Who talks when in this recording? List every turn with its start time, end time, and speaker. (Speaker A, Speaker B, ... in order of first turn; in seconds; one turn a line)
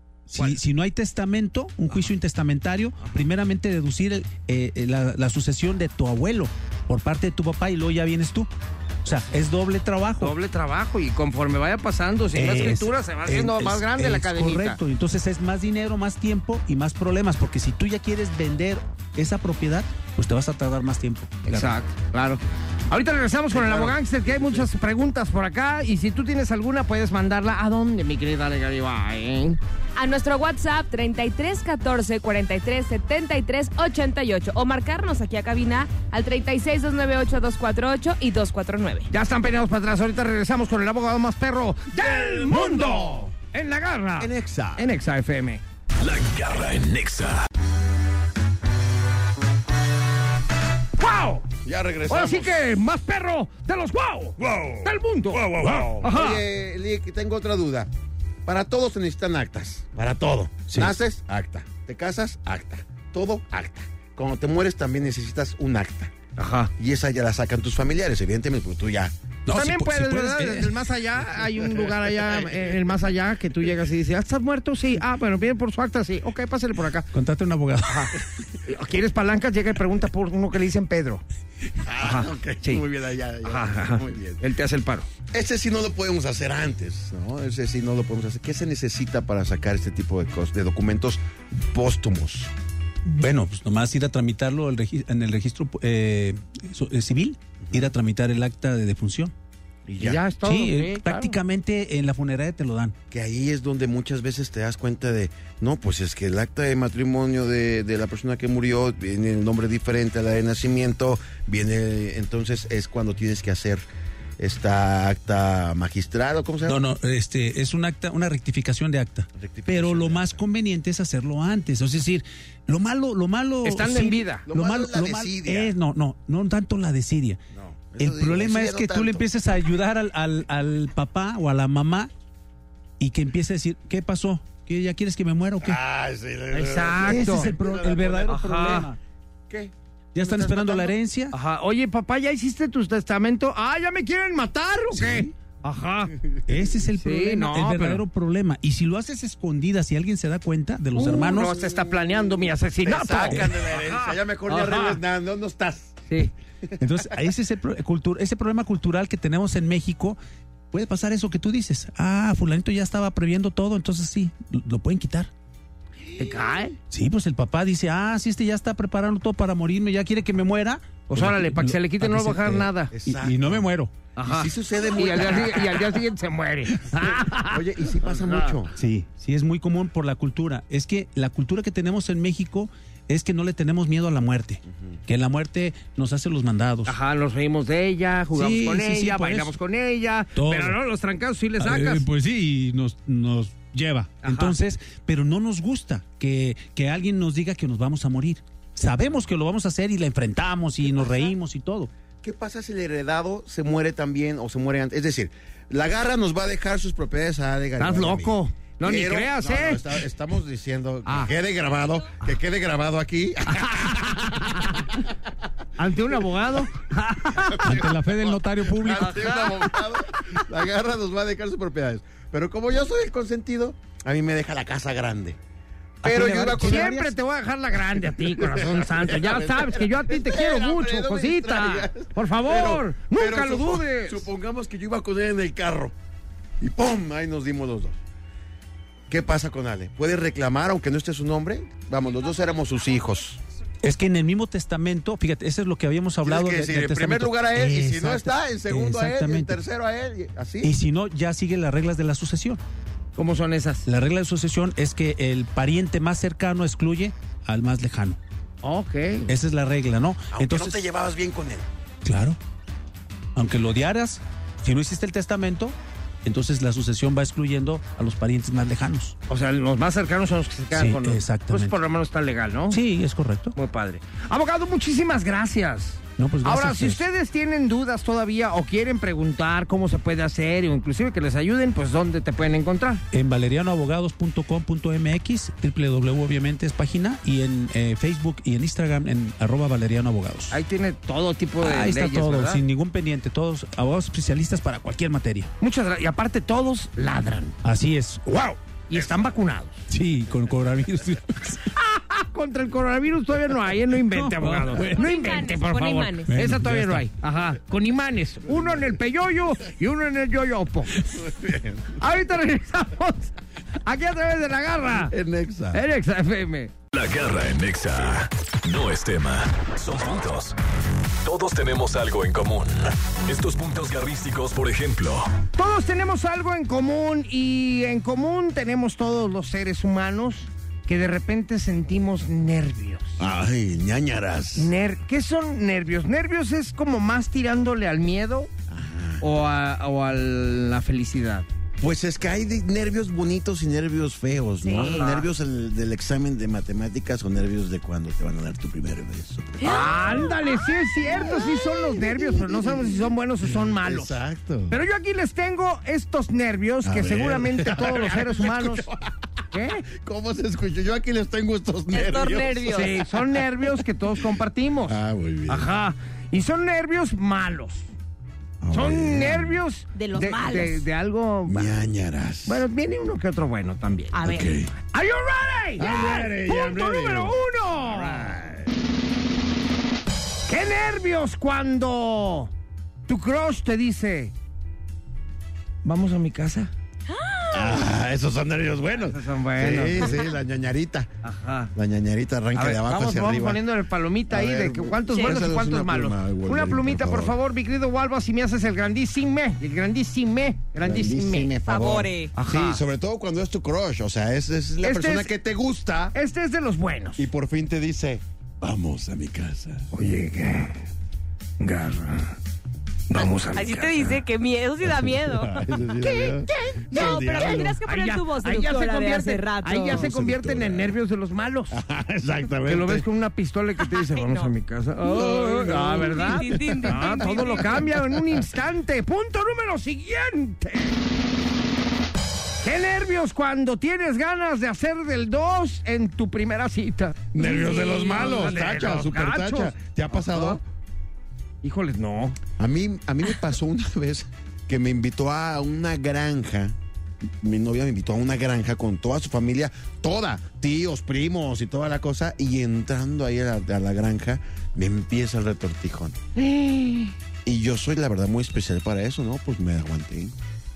Speaker A: 0.3-8.5
Speaker A: 9.0-10.3
Speaker B: 10.2-14.8
Speaker A: 12.3-21.8
Speaker B: 21.5-29.6
Speaker C: 23.5-24.7
Speaker D: 29.9-39.1
Speaker B: 39.1-45.6
Speaker C: 42.0-43.2
Speaker C: 44.2-44.9
Speaker E: 46.0-47.4
Speaker B: 51.0-51.5
Speaker C: 51.6-52.6
Speaker B: 52.1-56.4
Speaker C: 54.4-57.9
Speaker C: 58.4-66.1
Speaker B: 66.4-66.7
Speaker C: 66.8-69.1
Speaker A: 69.5-70.7
Speaker B: 69.5-77.1
Speaker A: 77.1-78.1
Speaker B: 77.8-78.1
Speaker B: 78.6-81.2
Speaker C: 81.8-84.4
Speaker B: 82.0-82.8
Speaker B: 83.4-85.1
Speaker C: 85.3-92.5
Speaker A: 93.0-99.3
Speaker C: 97.6-97.9
Speaker C: 99.9-100.2
Speaker B: 100.0-101.4
Speaker A: 100.4-102.9
Speaker C: 103.1-113.8
Speaker C: 114.4-116.8
Speaker A: 116.7-127.4
Speaker C: 119.4-120.4
Speaker B: 123.6-124.4
Speaker C: 124.5-125.7
Speaker C: 127.5-129.2
Speaker A: 128.0-132.1
Speaker A: 133.0-135.8
Speaker C: 135.6-138.8
Speaker B: 136.5-137.5
Speaker A: 137.0-139.0
Speaker B: 138.3-138.9
Speaker C: 139.5-141.0
Speaker A: 140.1-141.3
Speaker B: 141.3-146.1
Speaker A: 144.9-145.3
Speaker A: 146.5-151.5
Speaker B: 147.0-148.0
Speaker B: 150.9-155.0
Speaker C: 152.8-156.0
Speaker A: 156.8-160.2
Speaker A: 160.7-165.3
Speaker B: 166.2-166.8
Speaker A: 166.9-173.9
Speaker B: 171.1-172.9
Speaker C: 172.9-173.7
Speaker B: 174.2-178.6
Speaker C: 174.2-176.0
Speaker C: 177.5-178.7
Speaker A: 178.8-186.9
Speaker B: 186.9-192.0
Speaker A: 188.3-189.5
Speaker A: 190.4-190.8
Speaker A: 191.6-201.9
Speaker B: 194.2-194.6
Speaker C: 202.2-215.0
Speaker B: 207.8-209.9
Speaker B: 213.6-214.9
Speaker B: 215.8-217.9
Speaker C: 217.4-225.4
Speaker A: 217.6-219.5
Speaker B: 218.9-219.9
Speaker C: 226.0-226.9
Speaker A: 226.0-227.1
Speaker B: 226.3-234.2
Speaker C: 228.3-235.9
Speaker C: 236.6-238.0
Speaker C: 239.1-243.4
Speaker A: 243.8-249.6
Speaker C: 246.2-250.7
Speaker A: 250.6-252.6
Speaker B: 253.2-253.9
Speaker A: 253.9-258.2
Speaker B: 258.6-259.3
Speaker A: 259.3-260.8
Speaker C: 260.3-261.7
Speaker A: 262.0-262.4
Speaker A: 263.4-269.1
Speaker B: 269.3-272.8
Speaker A: 270.7-271.8
Speaker A: 272.7-273.5
Speaker B: 273.5-283.0
Speaker A: 276.2-277.0
Speaker A: 283.1-290.6
Speaker B: 290.5-292.6
Speaker A: 291.6-295.5
Speaker B: 295.6-297.6
Speaker A: 297.6-298.6
Speaker B: 298.9-299.8
Speaker A: 299.9-301.7
Speaker B: 301.7-311.0
Speaker A: 304.1-305.0
Speaker D: 304.8-306.4
Speaker A: 306.3-307.0
Speaker C: 311.0-312.0
Speaker B: 311.9-315.1
Speaker C: 315.0-315.8
Speaker B: 315.7-316.7
Speaker E: 316.9-320.6
Speaker E: 321.2-325.4
Speaker B: 325.6-333.2
Speaker C: 333.2-334.7
Speaker B: 334.6-338.5
Speaker C: 338.7-339.3
Speaker B: 339.2-341.5
Speaker C: 341.8-349.9
Speaker D: 344.6-345.0
Speaker B: 344.7-345.3
Speaker D: 349.6-350.3
Speaker B: 349.6-354.2
Speaker C: 351.0-354.8
Speaker B: 354.7-358.9
Speaker C: 356.8-359.3
Speaker B: 359.5-359.9
Speaker C: 359.9-363.7
Speaker D: 361.9-362.9
Speaker B: 362.7-367.9
Speaker C: 364.9-365.7
Speaker C: 368.6-369.6
Speaker B: 368.7-371.7
Speaker D: 369.9-370.8
Speaker C: 371.5-372.6
Speaker B: 372.4-374.2
Speaker D: 374.1-374.5
Speaker C: 374.2-374.7
Speaker B: 374.9-378.4
Speaker C: 375.8-378.8
Speaker B: 380.5-382.5
Speaker B: 383.1-384.3
Speaker B: 385.8-386.7
Speaker D: 387.1-387.8
Speaker C: 387.5-391.1
Speaker B: 389.1-390.2
Speaker B: 391.2-391.7
Speaker C: 391.7-393.6
Speaker B: 392.5-401.5
Speaker C: 394.3-397.4
Speaker D: 395.1-395.4
Speaker C: 400.8-406.1
Speaker D: 401.6-402.3
Speaker B: 402.3-402.8
Speaker B: 404.8-405.3
Speaker B: 406.1-407.3
Speaker C: 407.2-409.9
Speaker B: 409.9-410.8
Speaker B: 411.6-412.4
Speaker B: 413.1-414.2
Speaker D: 413.5-420.1
Speaker C: 414.8-417.8
Speaker B: 416.9-421.8
Speaker C: 419.7-420.9
Speaker C: 421.7-423.1
Speaker B: 422.6-431.0
Speaker D: 424.0-424.5
Speaker C: 425.0-428.4
Speaker D: 425.2-427.9
Speaker B: 432.6-440.6
Speaker C: 437.3-440.6
Speaker D: 437.4-438.5
Speaker B: 441.6-442.4
Speaker C: 442.6-446.8
Speaker C: 447.4-456.2
Speaker B: 456.4-457.1
Speaker C: 457.4-460.4